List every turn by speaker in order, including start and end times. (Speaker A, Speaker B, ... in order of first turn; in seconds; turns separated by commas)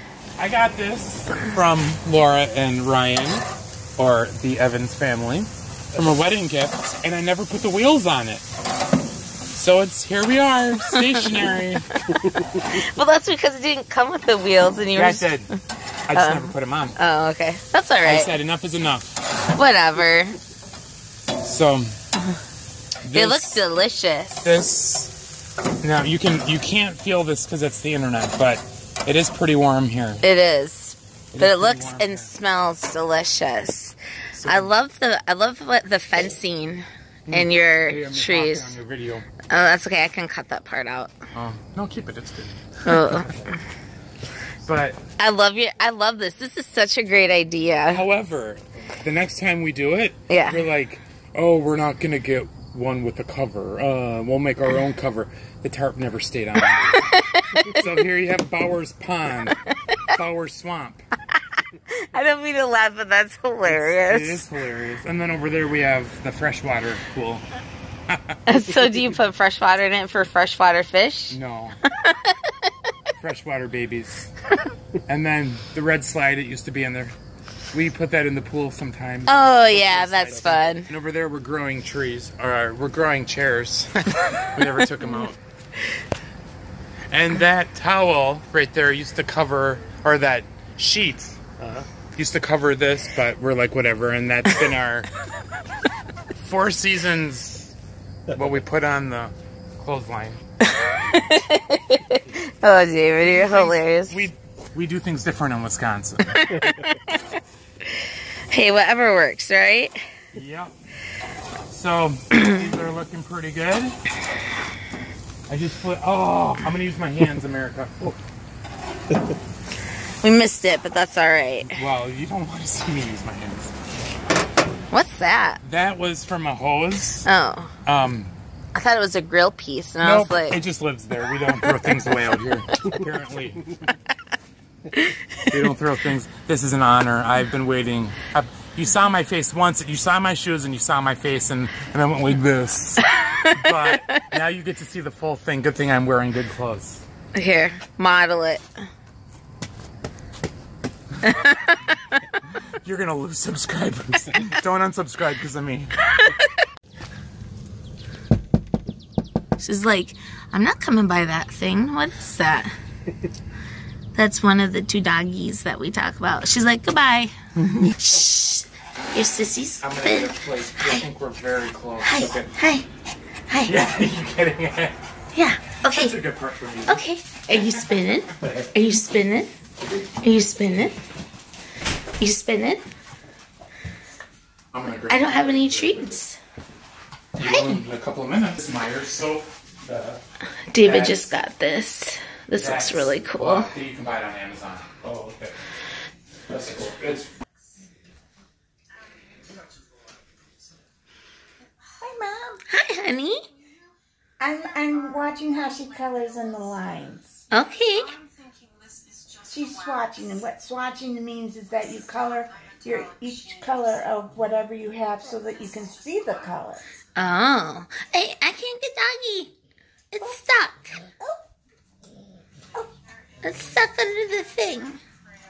Speaker A: 0.4-3.5, Speaker A: 4.0-8.4, Speaker A: 9.5-11.9, Speaker B: 10.9-11.5, Speaker B: 12.1-15.4, Speaker A: 14.9-15.5, Speaker A: 16.1-17.0, Speaker B: 16.1-18.3, Speaker A: 18.0-19.2, Speaker B: 19.5-20.4, Speaker A: 21.4-22.0, Speaker A: 23.0-23.6, Speaker B: 23.1-24.5, Speaker A: 24.4-25.1, Speaker A: 25.8-30.2, Speaker B: 30.2-38.8, Speaker A: 31.3-32.3, Speaker A: 34.4-34.7, Speaker A: 37.3-39.3, Speaker B: 39.5-41.1, Speaker A: 41.3-43.5, Speaker B: 42.9-43.5, Speaker A: 44.6-45.0, Speaker B: 45.2-48.0, Speaker A: 47.9-56.9, Speaker B: 50.3-50.6, Speaker B: 56.9-57.8, Speaker A: 57.6-59.6, Speaker B: 59.7-60.0, Speaker A: 60.1-61.0, Speaker B: 61.9-64.5, Speaker A: 63.6-67.4, Speaker A: 68.1-68.4, Speaker B: 68.5-72.7, Speaker A: 71.3-71.8, Speaker A: 73.2-74.3, Speaker A: 75.1-77.2, Speaker A: 77.7-85.4, Speaker B: 79.3-80.9, Speaker A: 87.1-95.1, Speaker A: 96.4-97.7, Speaker A: 98.3-100.4, Speaker B: 100.6-104.3, Speaker A: 103.2-106.5, Speaker B: 106.3-107.2, Speaker B: 108.5-110.0, Speaker A: 110.3-110.7, Speaker A: 111.7-114.0, Speaker A: 115.5-118.2, Speaker B: 120.2-121.8, Speaker A: 121.7-123.7, Speaker B: 124.9-125.6, Speaker A: 125.6-127.3, Speaker B: 127.2-127.7, Speaker A: 127.8-128.3, Speaker B: 128.7-130.6, Speaker A: 130.0-133.7, Speaker B: 134.9-135.4, Speaker A: 135.5-147.0, Speaker B: 143.1-144.2, Speaker B: 147.3-148.7, Speaker B: 151.2-152.2, Speaker A: 152.8-156.0, Speaker B: 156.1-156.5, Speaker B: 159.6-162.7, Speaker B: 164.2-171.0, Speaker A: 169.8-172.5, Speaker B: 172.0-172.9, Speaker B: 173.5-173.8, Speaker A: 173.7-175.0, Speaker B: 175.3-176.2, Speaker A: 175.9-177.0, Speaker B: 176.9-179.5, Speaker A: 177.5-177.8, Speaker B: 180.2-181.0, Speaker B: 182.2-182.8, Speaker A: 184.7-186.2, Speaker B: 185.1-186.4, Speaker A: 187.4-190.2, Speaker B: 187.4-187.8, Speaker B: 190.7-193.7, Speaker A: 190.8-191.3, Speaker A: 192.6-195.6, Speaker A: 196.5-197.3, Speaker C: 202.0-202.6, Speaker B: 202.7-203.4, Speaker C: 204.4-207.4, Speaker B: 207.5-208.2, Speaker C: 209.4-216.8, Speaker B: 217.2-219.5, Speaker B: 220.1-221.0, Speaker B: 223.4-225.0